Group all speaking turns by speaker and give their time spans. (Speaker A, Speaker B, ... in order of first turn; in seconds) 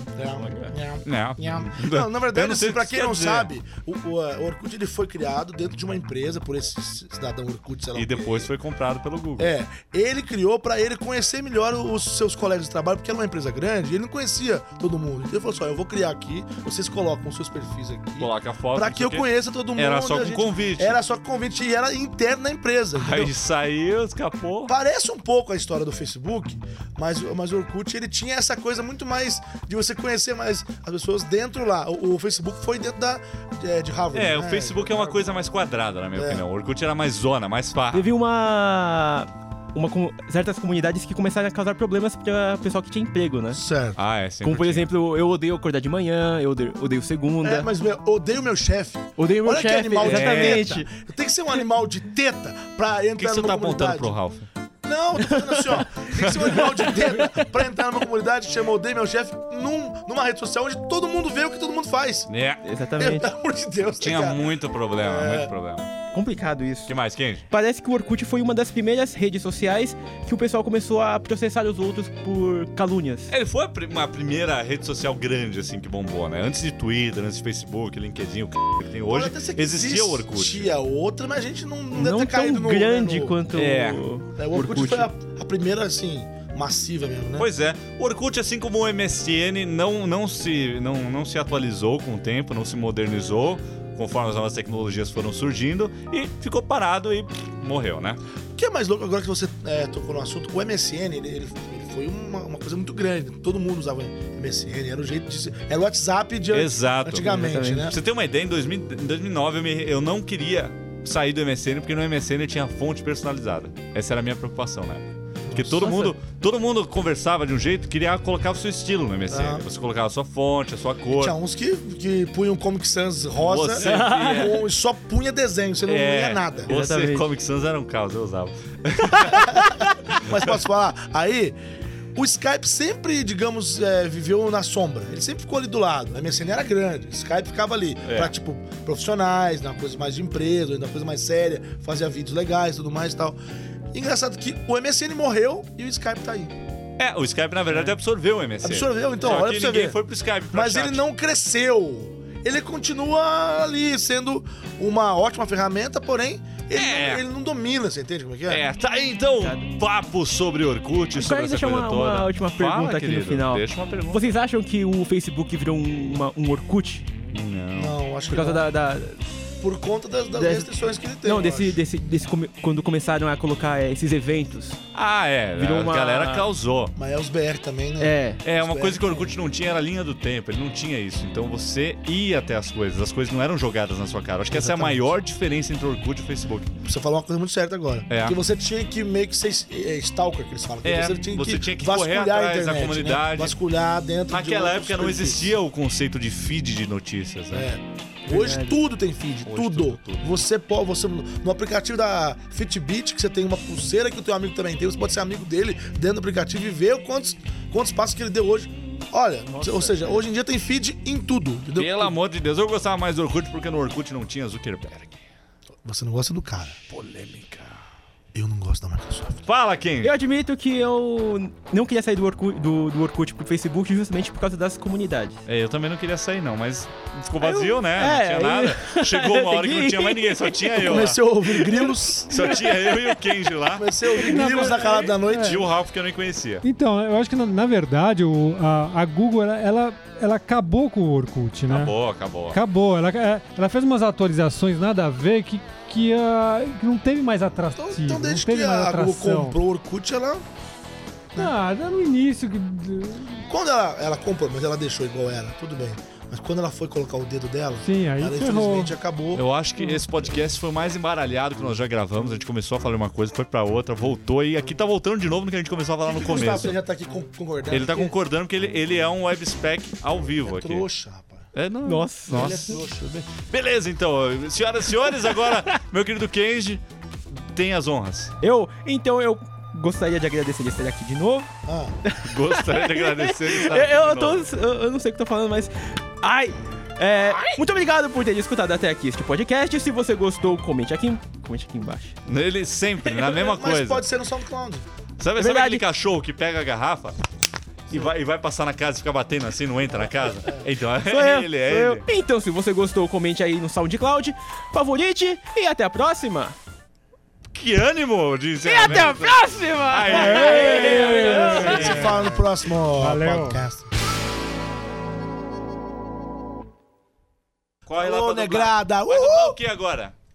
Speaker A: 0.1-8.5, 9.4-23.4, 24.7-35.3, 36.1-36.4, 43.5-44.0, 47.4-54.2, 54.8-62.3, 63.0-65.5, 79.1-83.4, 84.4-87.5, 98.6-108.0, 115.5-115.9, 119.3-119.7, 121.1-126.8, 129.3-131.6, 132.2-143.4, 143.9-146.5, 148.6-158.7, 167.7-168.7, 169.6-171.8, 176.9-179.4, 184.5-185.2, 186.8-195.6, 197.5-212.2, 215.8-216.8, 218.3-219.4, 230.8-232.5, 233.7-235.6, 247.8-250.4, 253.4-259.4, 266.0-268.2, 270.4-271.5, 272.3-273.2, 281.6-281.9, 293.4-294.9, 299.9-300.7, 311.2-313.9, 318.0-319.6
Speaker B: 0.3-0.8, 37.9-43.6, 44.4-47.7, 49.2-50.9, 55.2-55.7, 56.5-57.4, 62.6-63.3, 66.1-67.0, 67.5-73.3, 81.9-85.1, 107.2-107.9, 115.8-116.2, 123.8-124.6, 126.7-127.3, 159.4-159.7, 161.2-167.1, 168.3-169.3, 170.3-174.8, 175.6-176.5, 178.0-178.4, 198.3-198.8, 209.5-210.2, 220.0-225.4, 227.4-233.1, 271.9-272.8, 278.4-281.5, 282.0-292.2, 295.4-295.9, 301.0-306.6, 308.6-312.3
Speaker C: 1.0-3.5, 7.9-9.6, 18.2-21.0, 22.9-24.7, 34.1-38.1, 44.0-44.9, 50.0-50.7, 53.2-54.5, 56.1-56.9, 62.3-62.6, 64.0-65.9, 66.9-67.4, 73.3-80.7, 83.5-84.0, 87.4-98.2, 106.5-107.3, 107.8-121.4, 123.3-124.6, 125.9-129.6, 130.3-130.5, 138.0-138.3, 147.0-151.0, 156.7-157.2, 158.5-164.4, 167.3-168.0, 174.9-176.9, 178.4-186.7, 188.1-188.4, 190.8-193.6, 194.3-197.7, 199.4-200.3, 211.8-215.2, 216.9-217.8, 219.4-220.1, 225.5-231.2, 232.3-234.1, 235.3-236.6, 241.7-242.6, 259.3-266.8, 267.7-270.9, 271.5-278.3, 282.2-284.5, 292.3-294.1, 295.2-297.2, 297.9-302.1, 307.5-312.2, 317.9-320.1
Speaker D: 234.1-235.6, 236.6-249.6, 251.4-253.5, 257.8-259.0, 310.1-313.6